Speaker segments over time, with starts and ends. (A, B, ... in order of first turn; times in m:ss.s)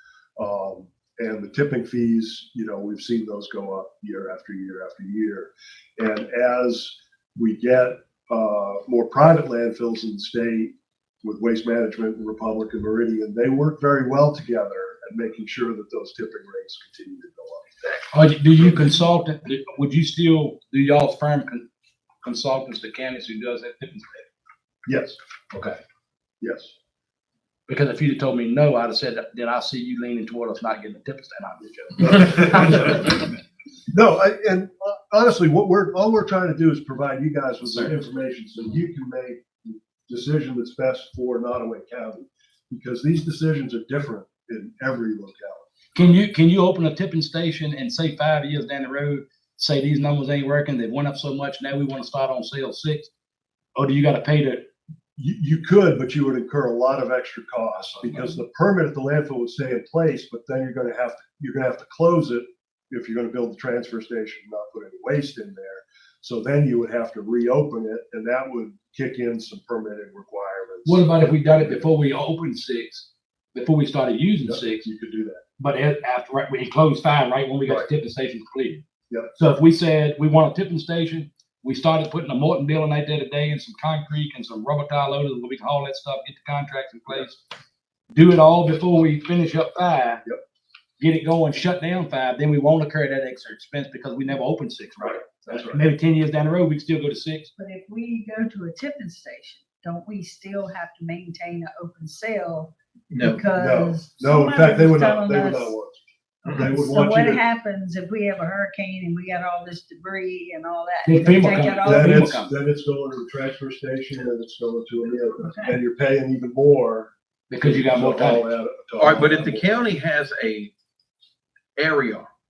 0:00.4-0:17.9 A
0:18.1-0:21.6 B
0:18.6-0:19.0 A
0:22.2-0:24.2 B
0:24.8-0:25.2 A
0:25.5-0:25.8 B
0:26.4-0:26.7 A
0:27.7-0:33.2 B
0:32.0-0:33.2 A
0:33.9-0:45.7 A
0:37.6-0:37.9 B
0:45.9-0:53.1 B
0:53.7-0:54.7 B
0:55.2-1:11.0 A
1:10.8-1:14.9 B
1:14.4-1:15.4 A
1:15.6-1:18.8 B
1:19.4-1:27.4 B
1:28.1-1:30.2 B
1:31.0-1:37.5 B
1:35.0-1:35.9 A
1:37.6-1:45.8 C
1:43.1-1:43.4 D
1:43.5-1:47.4 A
1:46.6-1:52.1 C
1:51.0-1:52.5 B
1:51.8-1:59.7 A
1:55.4-1:55.8 C
1:57.5-1:58.5 B
1:59.0-2:00.7 D
2:01.8-2:02.3 D